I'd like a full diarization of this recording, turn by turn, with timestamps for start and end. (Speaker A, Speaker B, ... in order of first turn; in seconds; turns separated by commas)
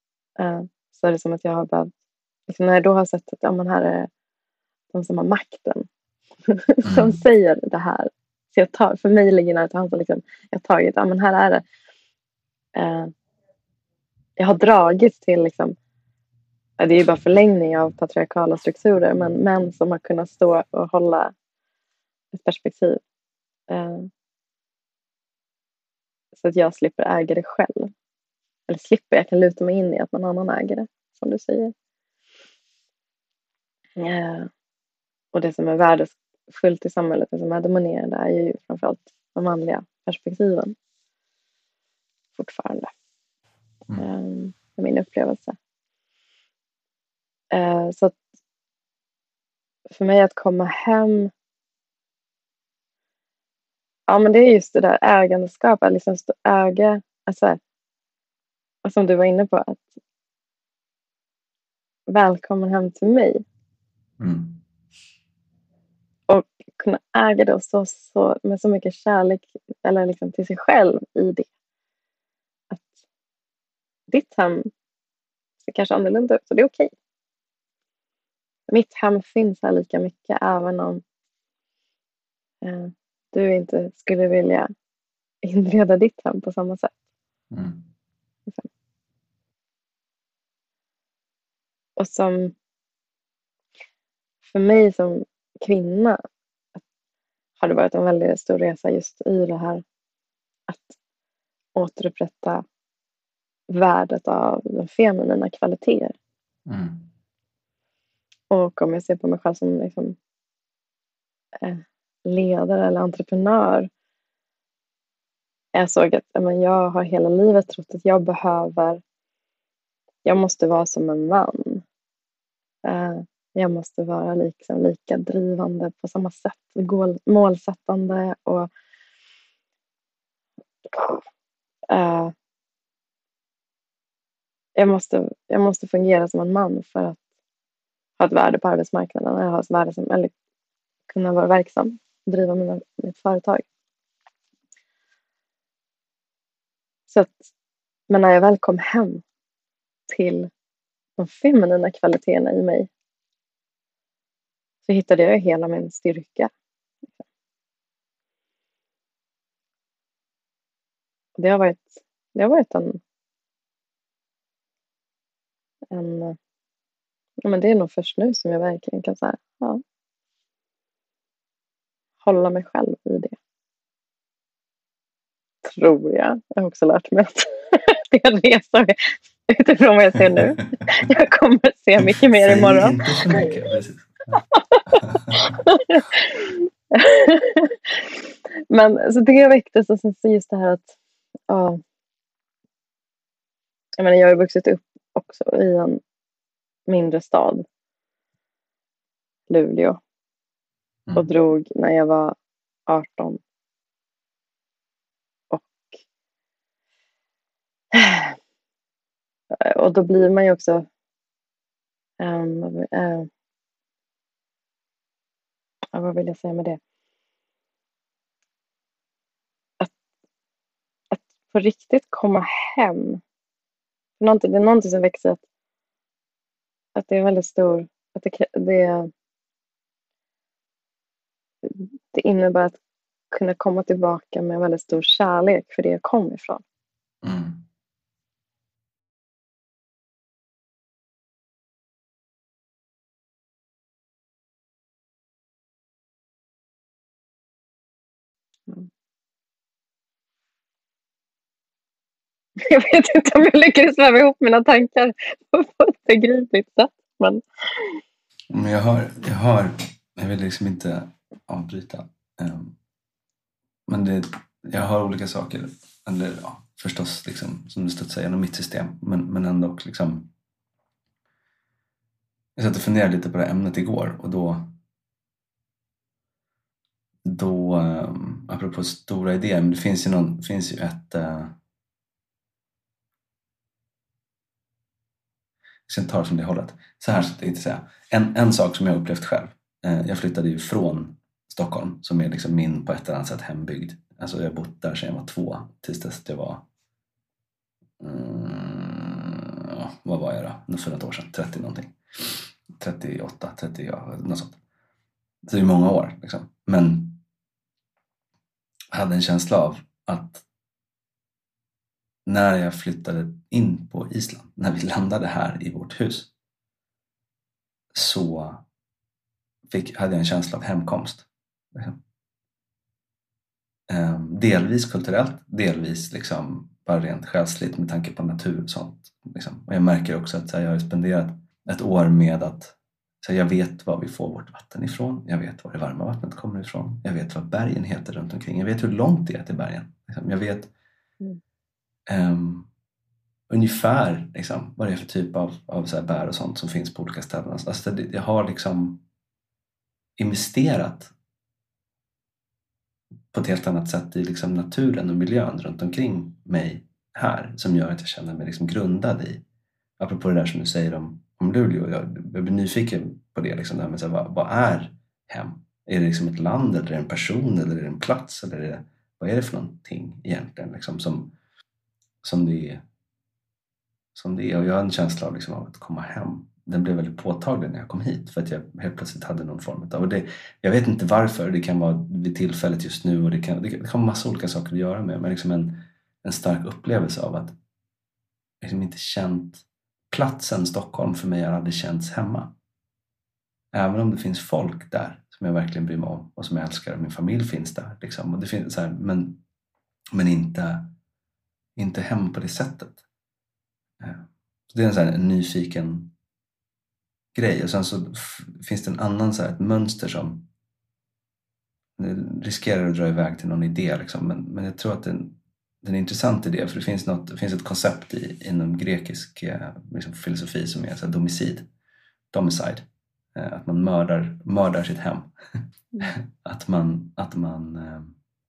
Speaker A: 0.4-1.9, Speaker A: 2.5-4.1, Speaker A: 4.9-5.9, Speaker A: 6.5-11.6, Speaker B: 6.8-7.2, Speaker A: 12.7-13.1, Speaker A: 14.4-15.7, Speaker A: 16.8-21.3, Speaker A: 22.3-23.0, Speaker A: 23.7-24.1, Speaker A: 26.3-27.9, Speaker A: 28.7-31.7, Speaker A: 34.0-34.5, Speaker A: 35.3-40.7, Speaker A: 42.4-42.9, Speaker A: 44.0-45.6, Speaker A: 47.5-48.2, Speaker A: 49.9-51.3, Speaker A: 54.1-57.6, Speaker A: 58.8-59.9, Speaker A: 62.1-63.4, Speaker B: 64.2-64.6, Speaker A: 66.3-71.5, Speaker A: 74.1-74.7, Speaker A: 75.6-76.9, Speaker A: 78.7-81.0, Speaker A: 82.6-84.7, Speaker A: 85.4-86.9, Speaker B: 87.5-87.9, Speaker A: 92.0-92.5, Speaker A: 94.4-96.2, Speaker A: 97.6-99.8, Speaker A: 100.7-101.0, Speaker A: 101.8-102.6, Speaker A: 103.7-106.1, Speaker B: 106.7-107.1, Speaker A: 108.5-110.2, Speaker A: 111.6-113.9, Speaker A: 115.7-119.0, Speaker A: 120.2-121.8, Speaker A: 122.8-128.7, Speaker A: 130.8-131.2, Speaker A: 131.9-132.3, Speaker A: 134.8-137.2, Speaker A: 138.2-140.3, Speaker A: 141.1-143.7, Speaker A: 147.1-147.5, Speaker A: 148.1-149.2, Speaker A: 150.1-150.5, Speaker A: 151.2-152.9, Speaker A: 154.9-156.5, Speaker A: 161.4-163.0, Speaker A: 165.9-166.4, Speaker A: 167.4-169.8, Speaker A: 172.2-173.3, Speaker A: 175.6-183.4, Speaker B: 182.0-184.4, Speaker A: 184.5-191.0, Speaker B: 184.9-185.6, Speaker A: 191.5-191.8, Speaker A: 194.0-196.0, Speaker A: 196.9-197.6, Speaker A: 199.5-200.0, Speaker A: 201.1-202.4, Speaker A: 202.9-203.4, Speaker A: 205.5-205.9, Speaker A: 207.9-208.3, Speaker A: 209.5-210.9, Speaker A: 212.2-213.3, Speaker A: 215.9-216.8, Speaker A: 221.1-223.2, Speaker A: 224.2-225.4, Speaker A: 226.9-229.1, Speaker A: 231.6-232.8, Speaker A: 233.3-236.6, Speaker B: 237.2-237.7, Speaker A: 252.6-258.0, Speaker B: 258.5-262.7, Speaker B: 263.9-270.3, Speaker B: 272.6-274.7, Speaker B: 277.2-281.6, Speaker B: 285.9-296.6, Speaker B: 298.0-304.6, Speaker B: 305.4-307.2, Speaker B: 308.9-310.4, Speaker B: 312.2-316.3, Speaker B: 317.9-318.6, Speaker B: 319.7-322.0, Speaker B: 323.9-340.7, Speaker B: 342.1-342.7, Speaker B: 343.5-349.0, Speaker B: 350.2-351.1, Speaker B: 353.3-359.4, Speaker B: 360.0-371.3, Speaker B: 372.2-372.8, Speaker B: 374.1-387.5, Speaker B: 388.6-392.5, Speaker B: 393.7-399.4, Speaker B: 400.1-400.9, Speaker B: 401.8-403.0, Speaker B: 404.0-406.1, Speaker B: 407.3-410.4, Speaker B: 412.0-421.7, Speaker B: 422.3-425.3, Speaker B: 426.0-428.1